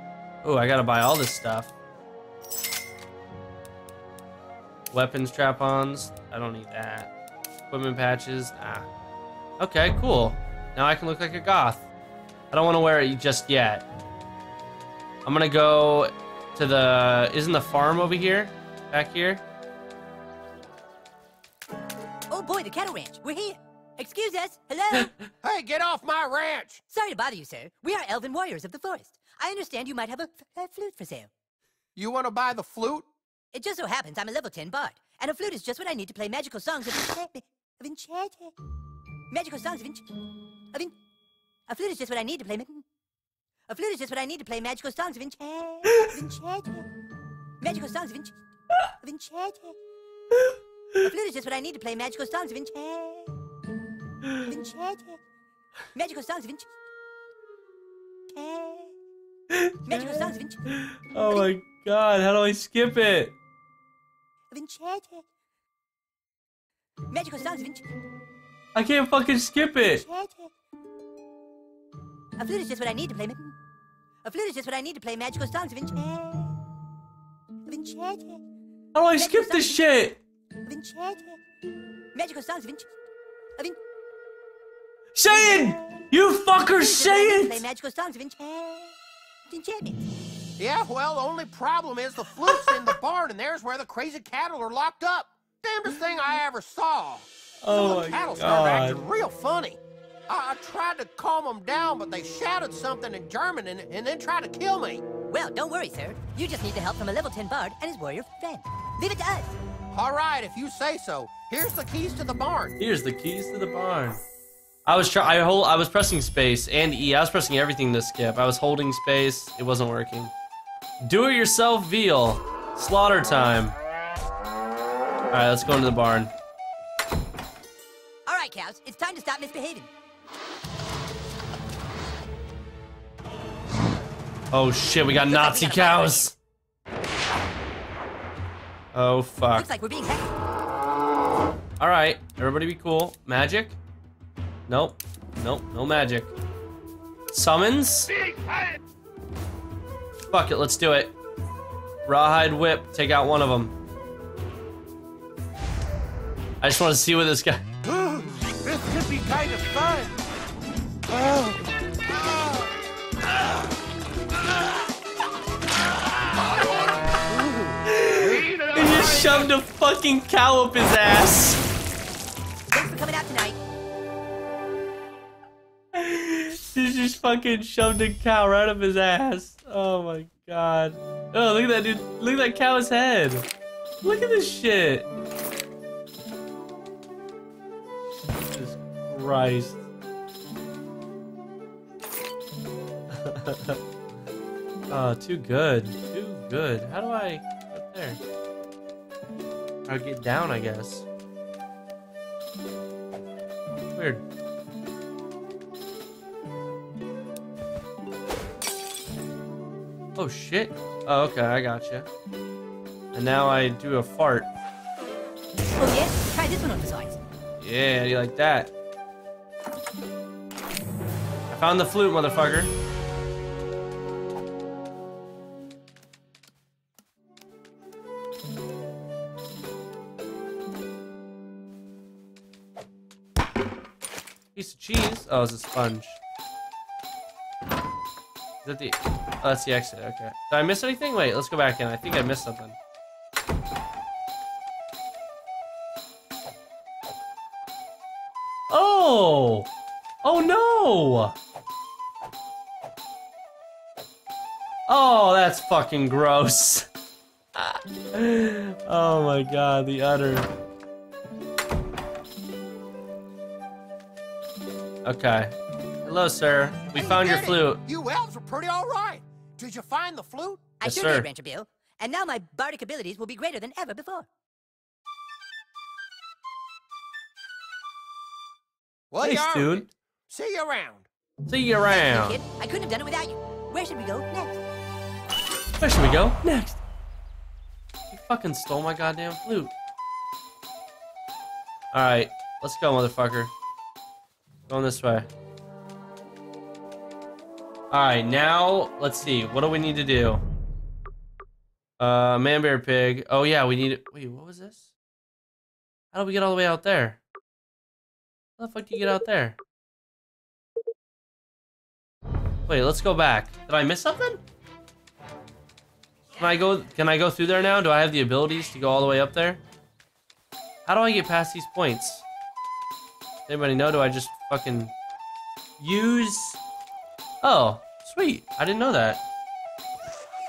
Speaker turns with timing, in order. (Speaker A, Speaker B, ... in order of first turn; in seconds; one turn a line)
Speaker A: 0.4-1.7
Speaker A: 4.9-7.1
Speaker A: 7.7-8.9
Speaker A: 9.6-11.9
Speaker A: 12.5-13.9
Speaker A: 15.2-19.4
Speaker B: 22.3-25.1
Speaker C: 25.4-26.8
Speaker B: 26.9-31.3
Speaker C: 31.9-33.1
Speaker B: 33.5-38.5
Speaker B: 39.3-40.0
Speaker B: 41.7-42.8
Speaker B: 43.7-46.9
Speaker B: 47.6-48.3
Speaker B: 49.0-49.8
Speaker B: 51.0-53.3
Speaker A: 54.2-54.5
Speaker B: 54.4-55.2
Speaker B: 55.9-56.7
Speaker B: 58.3-58.9
Speaker A: 59.5-63.4
Speaker B: 59.9-61.5
Speaker B: 64.5-65.2
Speaker B: 67.1-67.8
Speaker A: 68.7-70.0
Speaker B: 69.9-70.5
Speaker B: 72.4-73.5
Speaker B: 74.2-76.5
Speaker B: 77.7-78.4
Speaker A: 78.9-80.2
Speaker B: 79.1-79.8
Speaker B: 80.7-81.4
Speaker B: 82.1-82.9
Speaker A: 85.1-87.6
Speaker B: 85.2-86.0
Speaker B: 86.7-88.9
Speaker B: 89.5-90.0
Speaker C: 90.6-105.0
Speaker A: 97.6-99.0
Speaker B: 105.3-109.5
Speaker C: 109.9-112.8
Speaker A: 112.8-114.2
Speaker A: 114.8-120.3
Speaker A: 121.0-123.8
Speaker A: 125.3-126.3
Speaker B: 128.3-129.9
Speaker A: 134.5-136.3
Speaker B: 135.2-136.3
Speaker A: 138.9-139.7
Speaker B: 139.5-140.3
Speaker A: 141.8-143.8
Speaker A: 144.7-146.3
Speaker A: 147.3-148.1
Speaker A: 150.3-151.2
Speaker A: 152.1-153.7
Speaker A: 156.6-157.6
Speaker C: 157.8-160.1
Speaker C: 161.1-161.5
Speaker C: 167.3-167.7
Speaker A: 167.8-171.6
Speaker B: 172.7-173.6
Speaker A: 175.9-183.5
Speaker A: 184.0-185.1
Speaker A: 188.5-189.8
Speaker A: 193.1-193.8
Speaker A: 194.9-198.2
Speaker A: 199.9-201.1
Speaker A: 203.8-204.2
Speaker A: 210.2-212.1
Speaker A: 213.1-214.5
Speaker B: 215.8-217.2
Speaker A: 217.6-218.7
Speaker A: 221.5-222.7
Speaker A: 234.5-236.2
Speaker A: 238.6-242.8
Speaker A: 248.7-249.7
Speaker A: 250.2-251.3
Speaker A: 254.9-256.9
Speaker A: 257.5-260.5
Speaker A: 265.0-267.8
Speaker C: 266.9-270.7
Speaker B: 270.8-274.3
Speaker A: 270.8-271.2
Speaker C: 279.1-281.1
Speaker A: 279.2-279.9
Speaker A: 281.4-282.4
Speaker B: 281.9-284.6
Speaker A: 285.8-286.8
Speaker A: 288.1-289.7
Speaker A: 291.9-293.5
Speaker A: 294.7-295.3
Speaker A: 297.9-300.4
Speaker A: 302.0-304.9
Speaker A: 306.1-307.2
Speaker A: 308.6-309.6
Speaker A: 312.7-314.4
Speaker A: 316.4-319.6
Speaker A: 320.8-322.2
Speaker A: 323.5-324.9
Speaker A: 325.8-326.6
Speaker A: 327.4-329.2